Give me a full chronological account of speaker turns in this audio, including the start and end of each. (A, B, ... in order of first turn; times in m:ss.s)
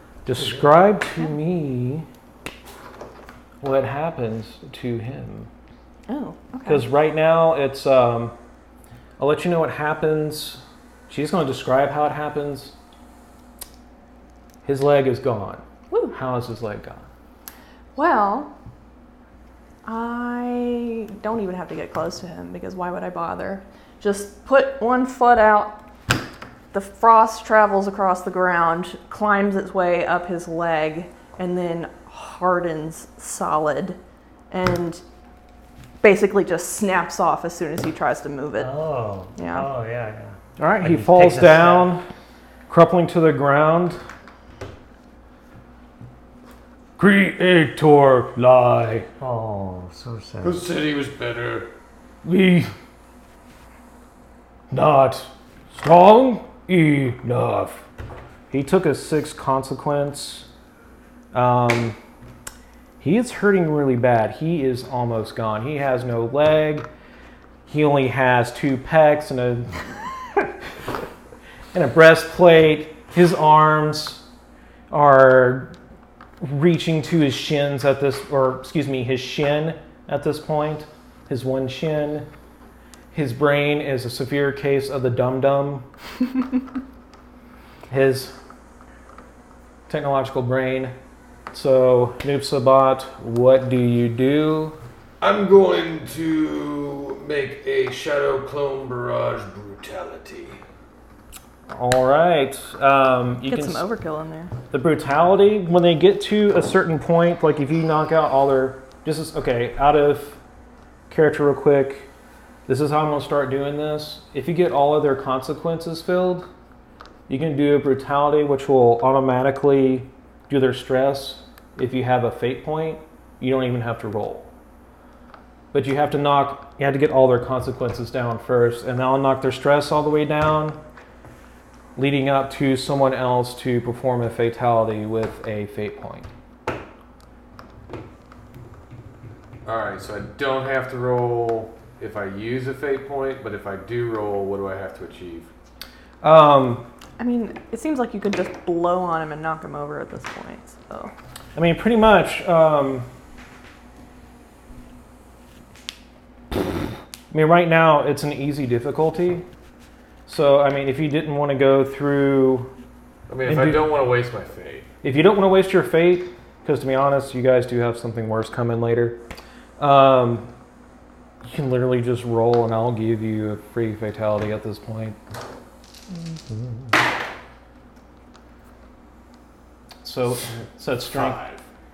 0:00.3-0:02.1 A
0:03.6-0:05.5 A
0:06.1-0:06.8 B
0:06.6-0:08.4 A
0:09.2-0:12.8 A
0:14.6-0:17.1 A
0:15.9-0:16.2 B
0:18.0-0:18.5 B
0:19.8-0:25.8 B
0:26.7-0:34.0 B
0:34.5-0:35.0 B
0:36.0-0:38.7 B
0:38.6-0:41.9 C
0:39.4-0:39.7 B
0:40.6-0:42.1 A
0:42.7-0:44.0 A
0:47.0-0:49.1 A
0:49.2-0:50.6 C
0:50.4-0:51.7 D
0:52.2-0:52.7 A
0:54.7-0:57.9 A
0:58.5-1:00.5 A
1:01.3-1:02.0 A
1:03.0-1:06.9 A
1:07.7-1:09.9 A
1:11.7-1:14.2 A
1:14.9-1:15.8 A
1:16.4-1:22.3 A
1:23.1-1:25.9 A
1:27.9-1:28.4 A
1:29.9-1:30.9 A
1:31.5-1:34.8 A
1:35.2-1:40.6 D
1:41.7-1:43.8 A
1:43.4-1:44.5 B
1:44.7-1:50.4 A
1:51.1-1:52.1 A
1:52.7-1:56.5 A
1:57.3-2:04.5 A
2:05.7-2:10.8 A
2:12.0-2:16.3 A
2:19.6-2:25.5 D
2:26.2-2:26.9 A
2:27.2-2:31.1 B
2:31.6-2:33.1 A
2:37.3-2:39.4 A
2:40.3-2:42.7 A
2:43.3-2:44.9 D
2:43.4-2:43.8 A
2:45.0-2:49.2 A
2:49.8-2:50.5 A
2:51.4-2:55.2 A
2:56.3-2:56.9 C
3:00.0-3:01.4 A
3:01.1-3:01.6 D